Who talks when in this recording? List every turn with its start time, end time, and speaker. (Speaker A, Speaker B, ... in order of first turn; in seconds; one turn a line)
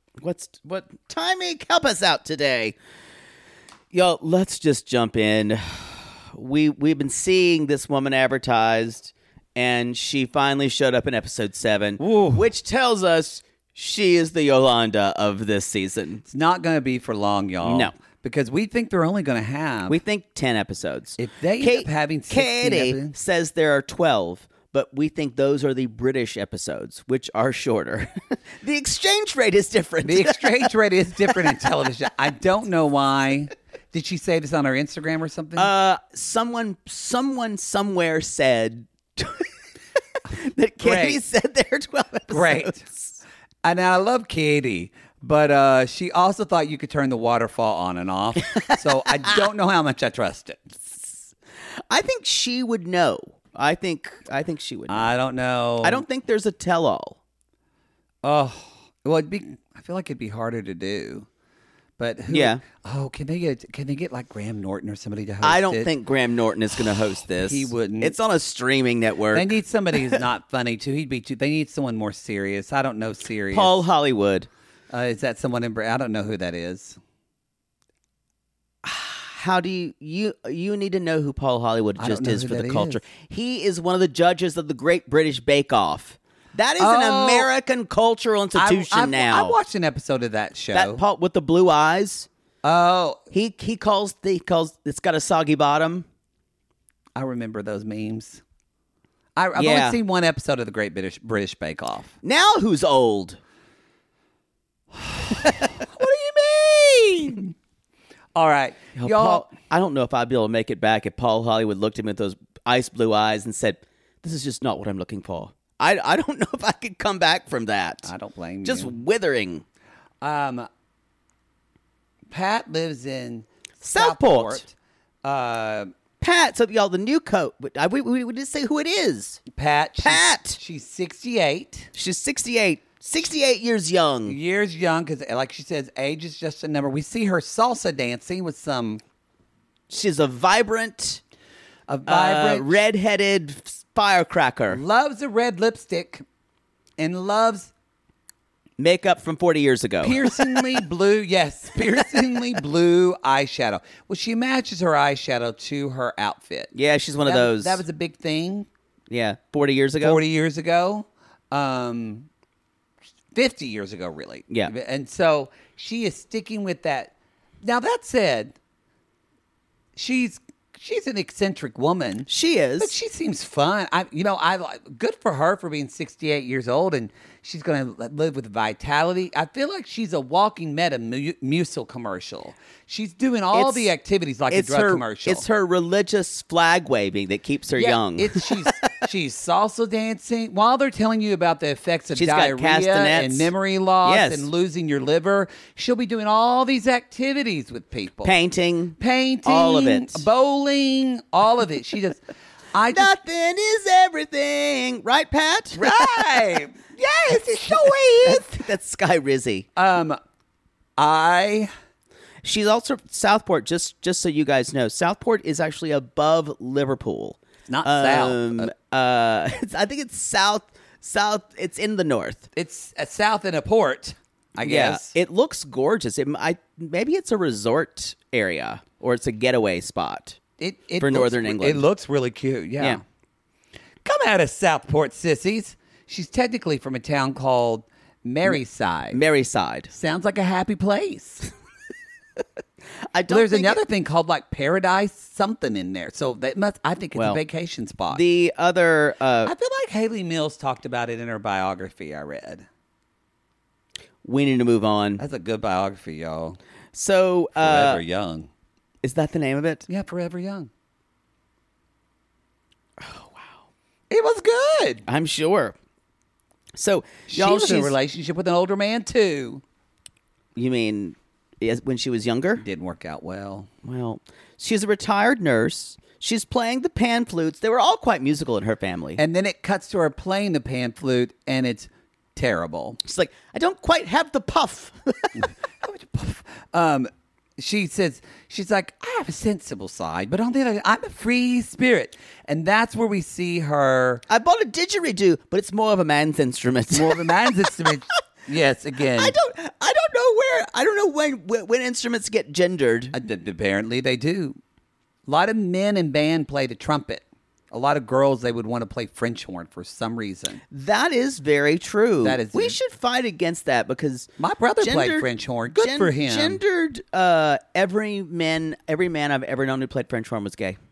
Speaker A: 0.2-2.8
Speaker A: 3.9-16.2
Speaker B: 12.0-12.4
Speaker B: 16.3-20.0
Speaker A: 17.6-17.9
Speaker A: 19.9-31.6
Speaker B: 21.2-23.1
Speaker B: 30.1-35.7
Speaker A: 35.6-39.5
Speaker A: 40.3-43.2
Speaker B: 40.8-41.2
Speaker B: 42.3-42.8
Speaker B: 43.6-51.0
Speaker A: 48.5-49.4
Speaker A: 51.9-55.1
Speaker B: 54.9-56.0
Speaker A: 55.8-57.2
Speaker B: 58.2-61.3
Speaker B: 62.0-65.9
Speaker A: 62.3-62.6
Speaker A: 65.4-70.2
Speaker B: 67.4-68.2
Speaker B: 69.3-73.8
Speaker A: 73.5-74.5
Speaker B: 74.9-77.0
Speaker A: 78.8-89.6
Speaker B: 82.0-83.0
Speaker B: 86.8-87.5
Speaker B: 88.6-91.0
Speaker A: 90.7-92.3
Speaker B: 92.6-93.2
Speaker A: 93.3-96.0
Speaker B: 97.2-98.4
Speaker B: 99.4-102.1
Speaker A: 99.6-100.0
Speaker A: 102.2-103.4
Speaker B: 105.0-107.5
Speaker B: 108.3-109.5
Speaker A: 109.0-118.1
Speaker B: 118.1-118.9
Speaker A: 118.6-119.6
Speaker B: 120.2-120.7
Speaker B: 122.3-124.7
Speaker A: 123.8-124.6
Speaker B: 125.2-125.9
Speaker A: 126.2-129.4
Speaker B: 129.5-131.9
Speaker A: 130.0-130.6
Speaker A: 131.9-134.4
Speaker B: 134.3-139.0
Speaker A: 139.9-141.2
Speaker B: 141.9-142.8
Speaker A: 142.1-144.8
Speaker B: 144.7-146.2
Speaker B: 147.0-147.7
Speaker A: 148.8-150.4
Speaker B: 150.0-156.7
Speaker A: 156.8-157.8
Speaker B: 157.3-158.7
Speaker A: 159.1-160.2
Speaker B: 160.0-162.3
Speaker B: 163.3-168.6
Speaker B: 170.0-172.3
Speaker A: 172.3-172.9
Speaker B: 172.8-185.4
Speaker A: 183.5-183.9
Speaker A: 184.5-188.5
Speaker B: 187.8-198.3
Speaker A: 192.1-193.5
Speaker A: 194.0-194.5
Speaker A: 198.2-200.3
Speaker B: 199.0-202.2
Speaker B: 202.7-203.1
Speaker A: 202.9-206.3
Speaker B: 205.8-208.5
Speaker A: 207.7-209.7
Speaker B: 209.8-210.2
Speaker B: 211.0-211.7
Speaker A: 212.4-222.5
Speaker B: 217.7-218.7
Speaker B: 222.6-225.2
Speaker A: 224.6-230.4
Speaker B: 230.6-233.0
Speaker A: 231.0-231.9
Speaker B: 234.0-239.2
Speaker A: 239.1-239.9
Speaker B: 239.9-241.5
Speaker A: 243.1-243.8
Speaker B: 243.3-248.2
Speaker A: 247.2-247.4
Speaker A: 248.1-249.5
Speaker B: 249.5-252.7
Speaker A: 254.2-255.2
Speaker B: 255.2-256.6
Speaker A: 256.9-258.0
Speaker B: 257.6-258.5
Speaker A: 259.0-259.9
Speaker B: 259.9-260.7
Speaker A: 263.0-263.6
Speaker B: 264.1-265.0
Speaker A: 265.1-265.8
Speaker A: 266.8-267.9
Speaker B: 267.3-269.6
Speaker A: 270.6-272.6
Speaker B: 272.6-273.7
Speaker A: 273.8-279.2
Speaker B: 279.2-283.0
Speaker A: 283.0-285.4
Speaker B: 285.4-294.2
Speaker A: 294.3-297.7
Speaker B: 296.9-299.4
Speaker A: 299.2-303.1
Speaker B: 303.1-304.6
Speaker B: 305.3-310.6
Speaker A: 310.7-314.3
Speaker B: 312.2-312.8
Speaker B: 314.4-316.6
Speaker A: 314.8-320.8